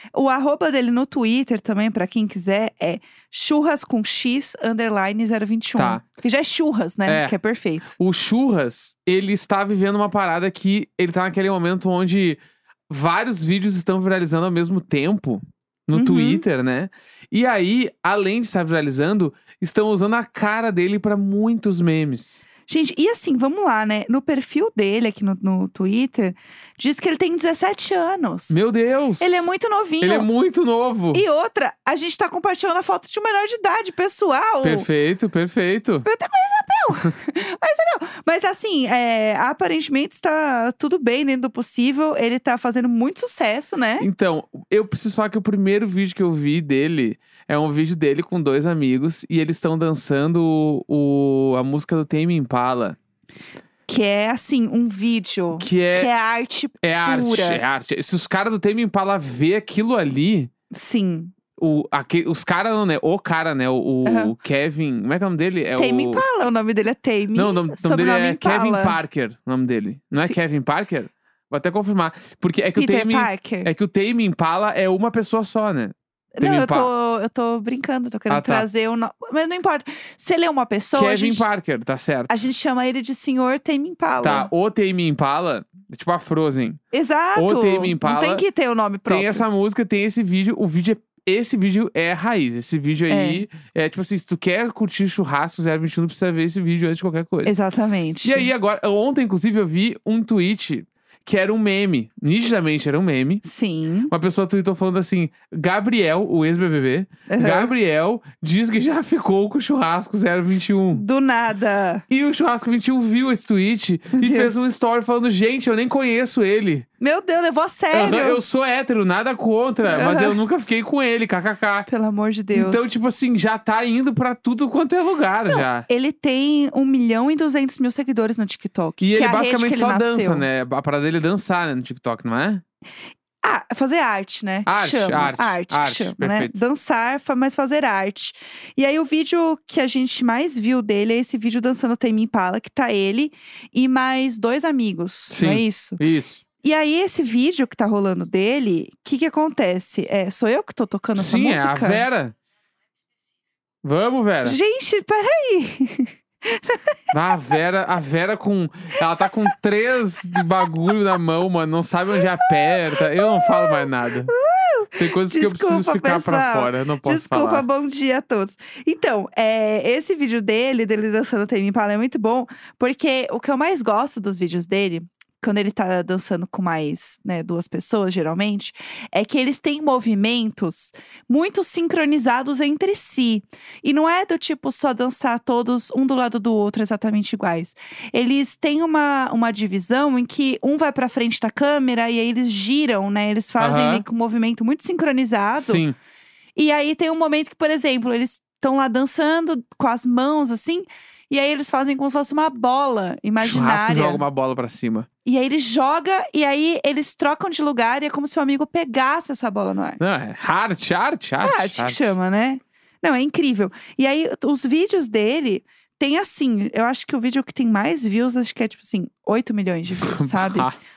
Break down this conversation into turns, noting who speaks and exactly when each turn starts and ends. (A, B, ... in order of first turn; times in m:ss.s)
0:00.1-0:07.9 A
0:05.8-0:06.0 B
0:07.1-0:07.3 B
0:08.0-0:22.4 B
0:15.9-0:16.4 A
0:22.7-0:28.6 A
0:28.5-0:29.5 B
0:29.2-0:30.3 A
0:30.0-0:31.2 B
0:31.1-0:34.9 A
0:34.6-0:36.1 B
0:36.0-0:44.1 A
0:44.0-0:53.0 B
0:53.9-0:57.6 A
0:55.6-0:56.1 B
0:56.8-1:00.5 B
1:00.7-1:01.3 A
1:01.6-1:06.2 B
1:04.0-1:04.3 A
1:05.8-1:09.0 A
1:07.3-1:16.9 B
1:12.8-1:13.7 A
1:16.4-1:21.4 A
1:18.3-1:18.6 B
1:20.9-1:22.4 B
1:22.3-1:24.5 A
1:24.2-1:26.8 B
1:26.9-1:29.4 A
1:27.3-1:28.4 B
1:29.1-1:37.5 B
1:33.1-1:33.4 A
1:37.4-1:38.5 A
1:38.2-1:43.4 B
1:43.4-1:44.1 A
1:44.1-1:51.0 B
1:47.3-1:47.7 A
1:50.9-1:52.0 A
1:52.1-1:56.8 B
1:54.1-1:54.6 A
1:57.0-1:58.4 A
1:57.9-2:01.9 B
1:59.8-2:00.4 A
2:01.9-2:03.0 A
2:02.5-2:05.9 B
2:05.5-2:10.4 A
2:09.0-2:12.6 B
2:13.4-2:26.0 A
2:14.6-2:16.6 B
2:25.3-2:26.4 B
2:26.6-2:32.0 A
2:31.1-2:32.3 B
2:33.8-2:34.6 B
2:34.4-2:36.9 A
2:37.1-2:44.3 B
2:42.4-3:15.8 A
2:45.0-2:47.6 B
3:13.6-3:14.0 B
3:15.6-3:15.9 B
3:16.6-3:24.2 A
3:23.4-3:25.1 B
3:25.2-3:30.0 A
3:30.0-3:32.1 B
3:31.4-3:40.7 A
3:40.0-3:40.7 B